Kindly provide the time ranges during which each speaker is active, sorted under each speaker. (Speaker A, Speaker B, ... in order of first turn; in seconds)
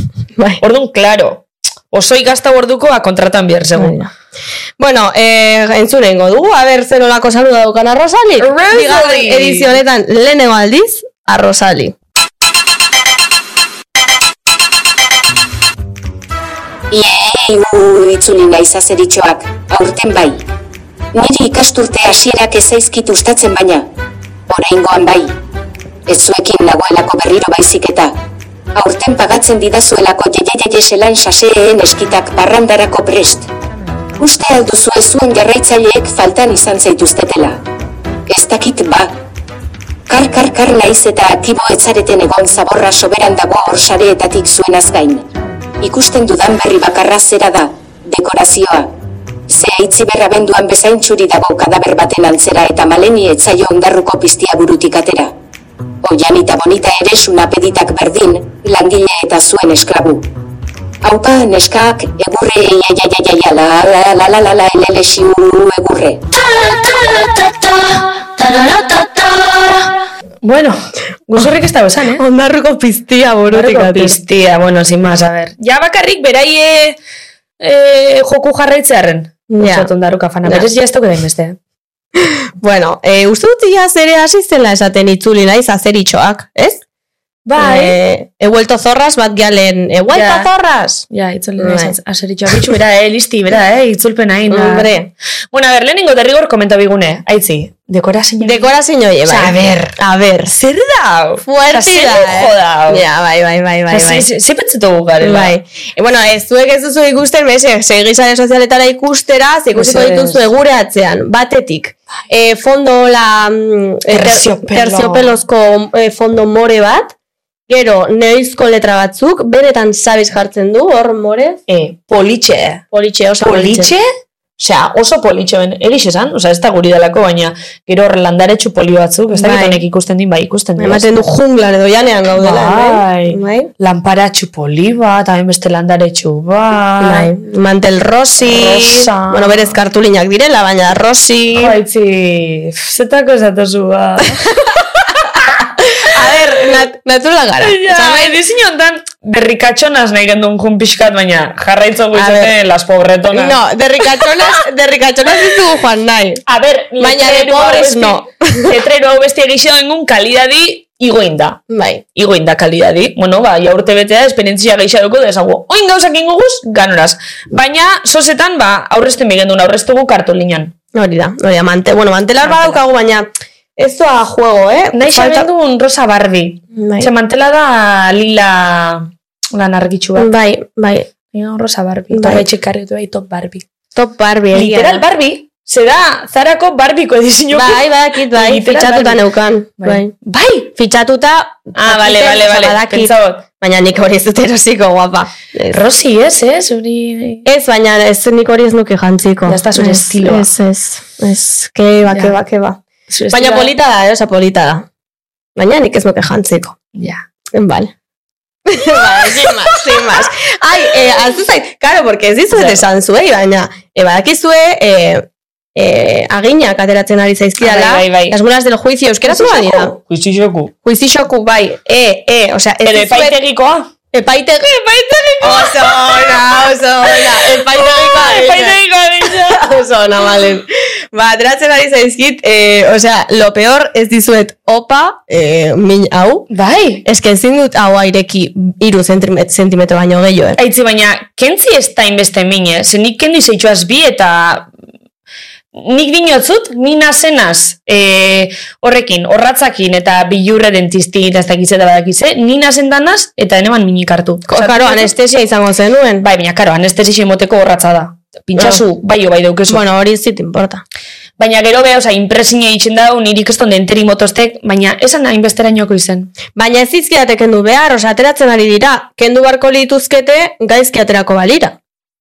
Speaker A: 0.6-4.0, 8.4-9.8, 70.4-72.2, 73.5-77.0, 77.6-81.6, 87.5-88.0, 90.1-90.5, 91.1-94.9, 95.5-98.7, 99.2-103.0, 103.9-105.5, 109.7-110.5, 114.1-115.3, 121.7-122.8, 123.4-124.1, 124.6-131.1, 132.4-137.3, 138.4-139.8, 141.6-144.5, 146.2-146.8, 147.6-153.6, 156.5-161.6, 162.2-170.7, 172.4-172.8, 174.9-180.3, 181.3-183.7, 184.5-189.2, 189.8-190.7, 191.8-193.5, 195.7-197.5, 199.5-200.5, 203.1-203.7, 206.9-207.2, 209.1-210.0, 212.5-212.8, 217.6-218.4, 219.2-220.7, 222.8-223.9, 224.8-229.7, 236.5-237.0, 240.6-244.7, 245.8-255.1, 256.2-259.8, 261.4-266.3
Speaker B: 3.8-4.1, 4.8-11.9, 72.2-74.2, 79.5-79.9, 82.2-86.8, 87.6-91.1, 91.6-92.0, 94.5-95.1, 98.4-100.5, 101.4-104.3, 105.2-117.1, 117.7-121.6, 122.9-123.9, 129.3-129.8, 130.8-133.7, 137.0-141.8, 145.8-148.4, 152.1-152.5, 153.3-156.4, 157.0-158.8, 161.7-162.0, 170.9-175.5, 176.7-177.1, 180.2-181.1, 182.1-182.4, 183.9-185.0, 187.5-190.1, 190.8-195.8, 197.5-202.8, 203.3-204.9, 205.6-206.8, 207.5-207.9, 208.7-220.0, 220.8-223.4, 224.1-224.8, 225.4-236.5, 237.1-240.6, 254.5-256.2, 258.6-258.8, 259.7-260.8, 266.6-271.8
Speaker C: 16.9-20.5, 21.1-23.9, 24.5-25.4, 26.1-28.1, 28.8-33.5, 34.2-37.6, 38.3-39.1, 40.1-45.3, 45.8-48.9, 49.5-55.3, 56.0-60.3, 61.0-66.2